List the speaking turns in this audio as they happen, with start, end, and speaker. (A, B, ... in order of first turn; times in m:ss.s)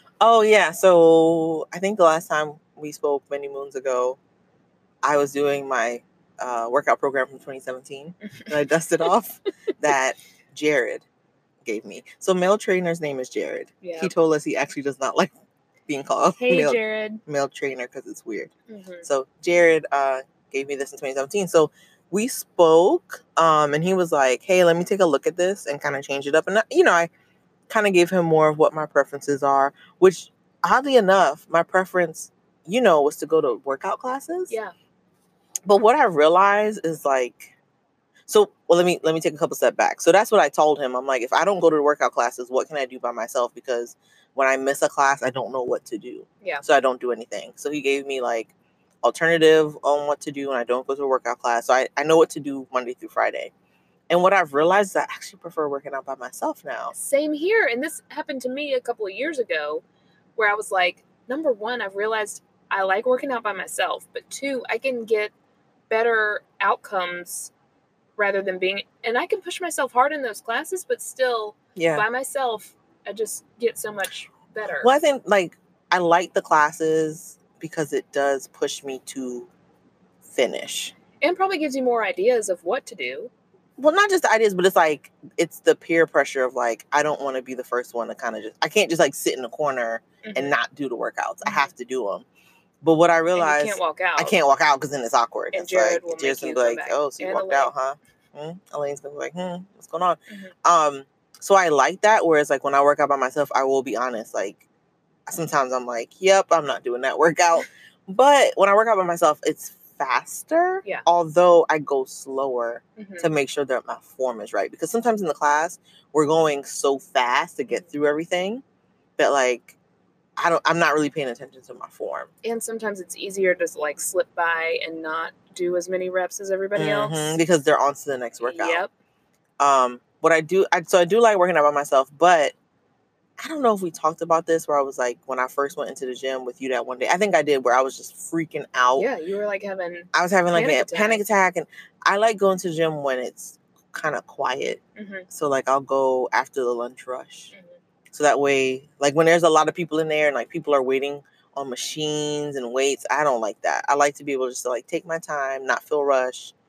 0:00.2-0:04.2 A
0:05.0-0:11.0 A
0:11.6-0:15.3 A
0:13.8-0:14.1 B
0:15.9-0:18.5 A
0:16.3-0:17.2 B
0:18.7-0:19.1 B
0:19.0-0:27.1 A
0:27.7-0:34.5 A
0:35.6-0:37.5 A
0:38.3-0:48.5 A
0:49.0-0:53.5 A
0:54.1-0:56.9 A
0:56.9-0:59.8 B
1:00.4-1:05.3 B
1:05.9-1:07.5 B
1:08.2-1:15.0 B
1:11.8-1:12.0 A
1:14.8-1:19.5 A
1:20.2-1:20.9 A
1:21.2-1:23.3 B
1:23.8-1:32.2 A
1:30.2-1:30.6 B
1:31.4-1:31.7 B
1:32.8-1:44.6 A
1:33.3-1:34.4 B
1:35.5-1:37.7 B
1:45.3-1:58.6 A
1:53.0-1:53.3 B
1:59.2-1:59.8 A
2:00.4-2:02.3 A
2:02.4-2:07.3 B
2:06.8-2:08.8 A
2:08.4-2:08.9 B
2:09.6-2:12.5 A
2:13.4-2:19.1 A
2:19.0-2:21.2 B
2:20.1-2:27.5 A
2:25.0-2:25.3 B
2:28.1-2:36.5 A